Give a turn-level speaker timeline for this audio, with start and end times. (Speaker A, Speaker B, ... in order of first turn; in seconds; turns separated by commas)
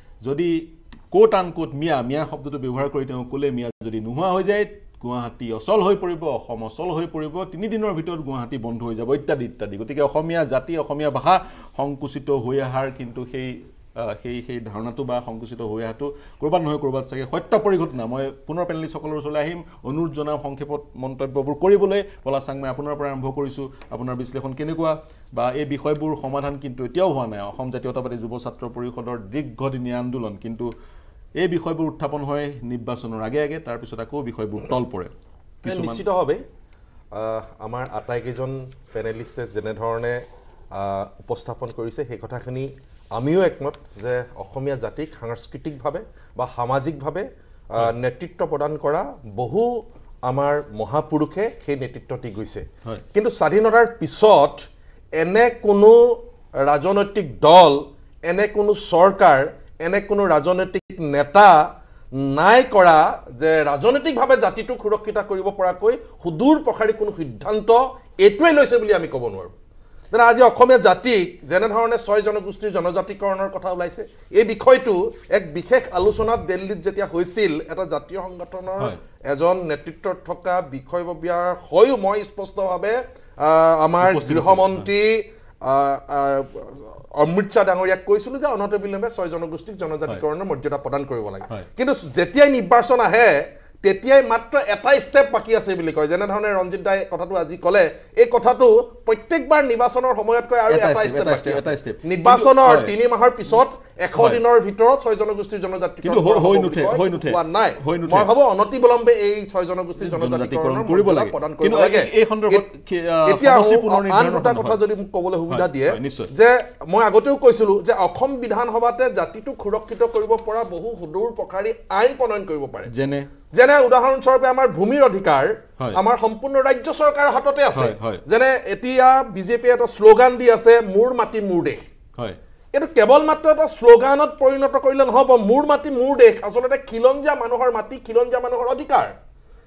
Speaker A: 0.2-0.6, Speaker A: 1.1-30.7, Speaker A: 31.4-35.1, Speaker A: 35.6-36.0, Speaker B: 35.6-36.4, Speaker B: 37.1-40.2, Speaker B: 40.7-54.6, Speaker B: 55.2-61.6, Speaker B: 62.1-69.5, Speaker B: 70.1-112.6, Speaker A: 84.0-84.9, Speaker A: 100.7-102.9, Speaker A: 104.1-104.4, Speaker A: 106.0-108.3, Speaker A: 110.0-114.8, Speaker B: 113.3-122.9, Speaker A: 115.5-116.3, Speaker A: 122.9-123.3, Speaker B: 123.5-131.8, Speaker A: 127.7-128.2, Speaker B: 132.7-139.1